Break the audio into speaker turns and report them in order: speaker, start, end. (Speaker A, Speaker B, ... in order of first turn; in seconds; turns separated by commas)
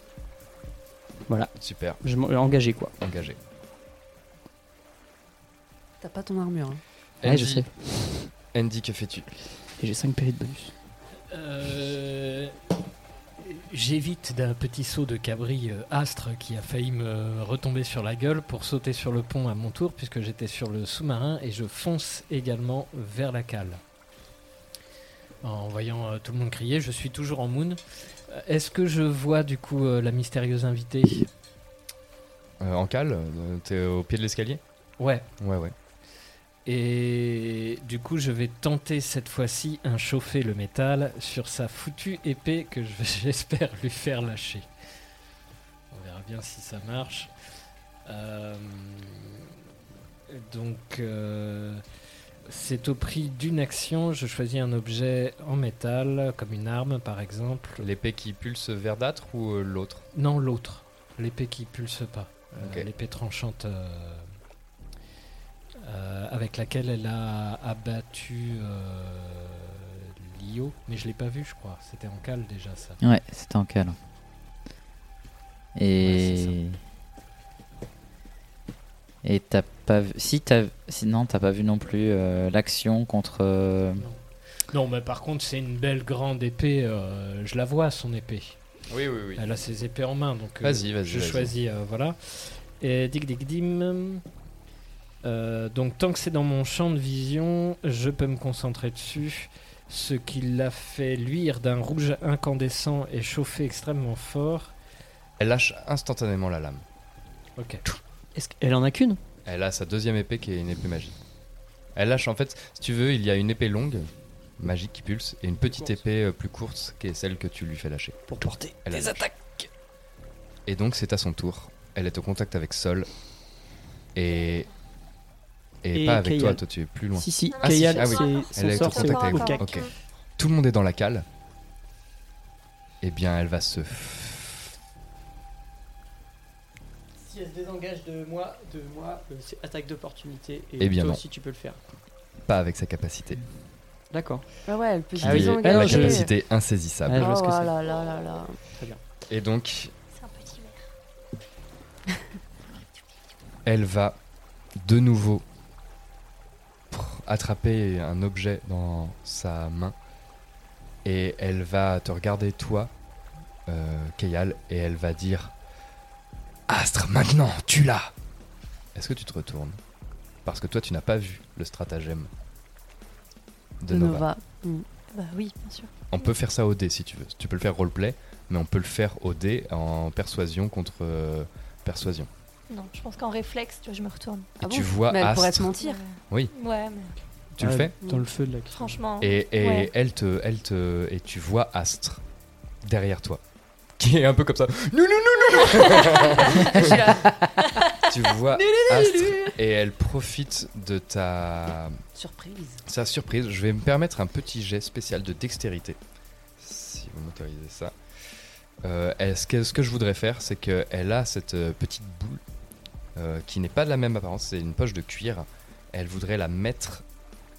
Speaker A: 1.6-2.0, Speaker B: 2.0-2.9, Speaker A: 3.0-3.4, Speaker C: 6.0-6.8, Speaker A: 7.2-7.7, Speaker B: 7.2-7.7, Speaker A: 8.5-9.3, Speaker B: 9.8-10.7, Speaker D: 11.3-12.5, Speaker D: 13.4-23.8, Speaker D: 25.4-31.3, Speaker A: 32.6-34.6, Speaker D: 35.0-35.2, Speaker A: 35.4-35.7, Speaker D: 36.6-44.7, Speaker D: 45.9-47.3, Speaker D: 48.0-49.5, Speaker D: 50.3-51.8, Speaker D: 52.5-57.8, Speaker A: 57.8-60.0, Speaker D: 60.1-64.3, Speaker A: 62.6-62.9, Speaker D: 65.8-73.0, Speaker E: 73.0-74.0, Speaker E: 75.7-76.8, Speaker D: 76.0-76.6, Speaker E: 79.2-84.0, Speaker D: 84.7-88.5, Speaker A: 88.9-89.4, Speaker D: 89.4-94.2, Speaker A: 90.6-91.5, Speaker D: 95.2-104.7, Speaker A: 105.4-106.8, Speaker D: 107.6-107.8, Speaker B: 108.3-109.2, Speaker A: 109.4-111.2, Speaker A: 112.0-114.1, Speaker A: 114.6-118.2, Speaker B: 118.3-119.7, Speaker A: 118.8-119.3, Speaker A: 120.7-123.1, Speaker A: 124.1-124.7, Speaker A: 125.8-131.2, Speaker B: 125.9-126.6, Speaker B: 127.1-129.8, Speaker F: 127.5-129.9, Speaker A: 133.0-134.6, Speaker B: 137.2-141.8, Speaker A: 140.8-141.2, Speaker A: 142.5-143.4, Speaker B: 144.1-144.4, Speaker C: 144.7-146.3, Speaker B: 145.2-146.3, Speaker A: 145.2-147.6, Speaker B: 147.1-147.7, Speaker C: 147.1-148.6, Speaker A: 149.3-149.9, Speaker F: 150.1-150.8, Speaker A: 153.6-154.2, Speaker A: 154.8-155.4, Speaker A: 156.9-159.9, Speaker A: 161.0-162.9, Speaker A: 163.7-165.5, Speaker A: 166.7-168.1, Speaker A: 168.9-169.8, Speaker A: 170.4-172.3, Speaker A: 173.8-174.3, Speaker C: 173.9-174.8, Speaker F: 175.1-176.3, Speaker A: 176.1-182.3, Speaker F: 182.7-184.5, Speaker C: 184.6-186.0, Speaker A: 184.6-185.7, Speaker F: 185.8-187.1, Speaker A: 187.6-187.9, Speaker B: 187.6-189.0, Speaker F: 188.7-189.9, Speaker A: 189.2-192.2, Speaker A: 192.8-193.4, Speaker A: 194.0-197.2, Speaker C: 196.7-197.3, Speaker A: 198.0-202.0, Speaker C: 198.5-199.5, Speaker C: 202.1-202.8, Speaker A: 202.8-206.0, Speaker A: 206.6-207.9, Speaker A: 208.8-212.4, Speaker A: 213.2-217.0